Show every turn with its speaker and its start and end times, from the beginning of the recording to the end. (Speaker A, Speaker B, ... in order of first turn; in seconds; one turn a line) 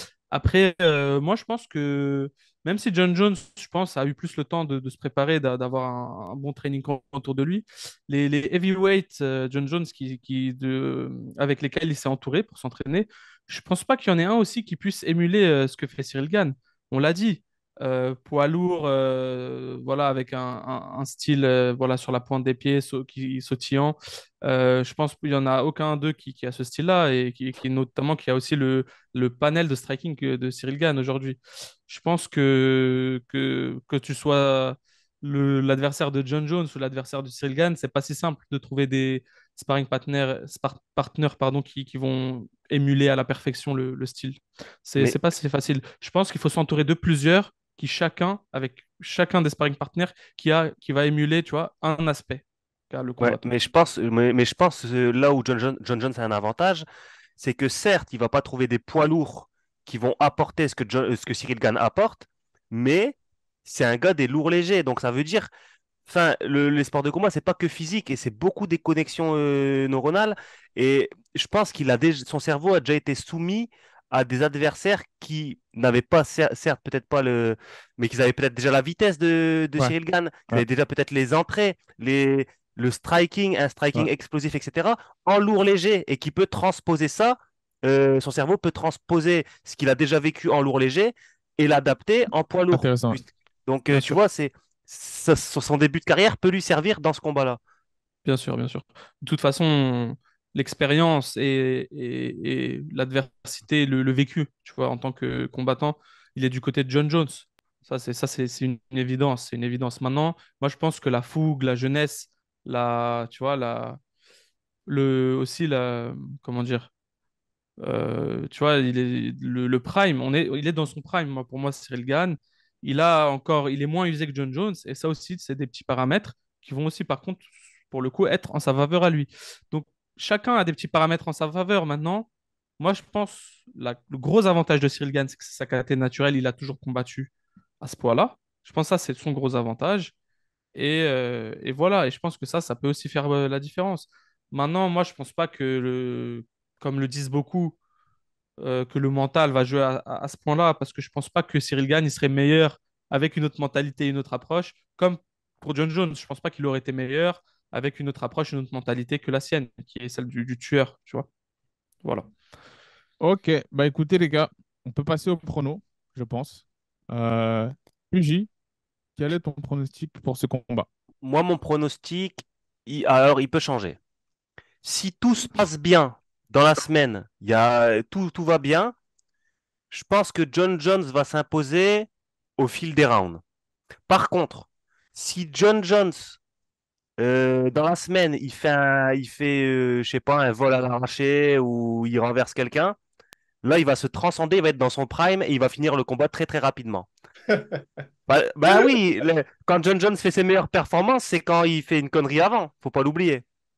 Speaker A: 0.3-53.4
Speaker B: 53.2-56.9
Speaker B: 57.4-65.5
Speaker B: 66.1-97.6
Speaker C: 92.7-93.2
Speaker C: 93.9-94.2
Speaker A: 98.2-114.0
Speaker A: 114.9-116.9
Speaker A: 117.8-132.3
Speaker A: 132.8-137.3
Speaker A: 137.8-140.1
Speaker A: 140.8-147.8
Speaker A: 148.6-161.3
Speaker A: 162.0-162.3
Speaker C: 163.2-168.5
Speaker C: 169.2-170.9
Speaker B: 171.2-174.0
Speaker B: 174.8-178.9
Speaker B: 179.9-183.4
Speaker B: 184.1-186.4
Speaker B: 187.2-193.0
Speaker B: 193.6-197.1
Speaker C: 197.5-197.8
Speaker B: 198.3-203.4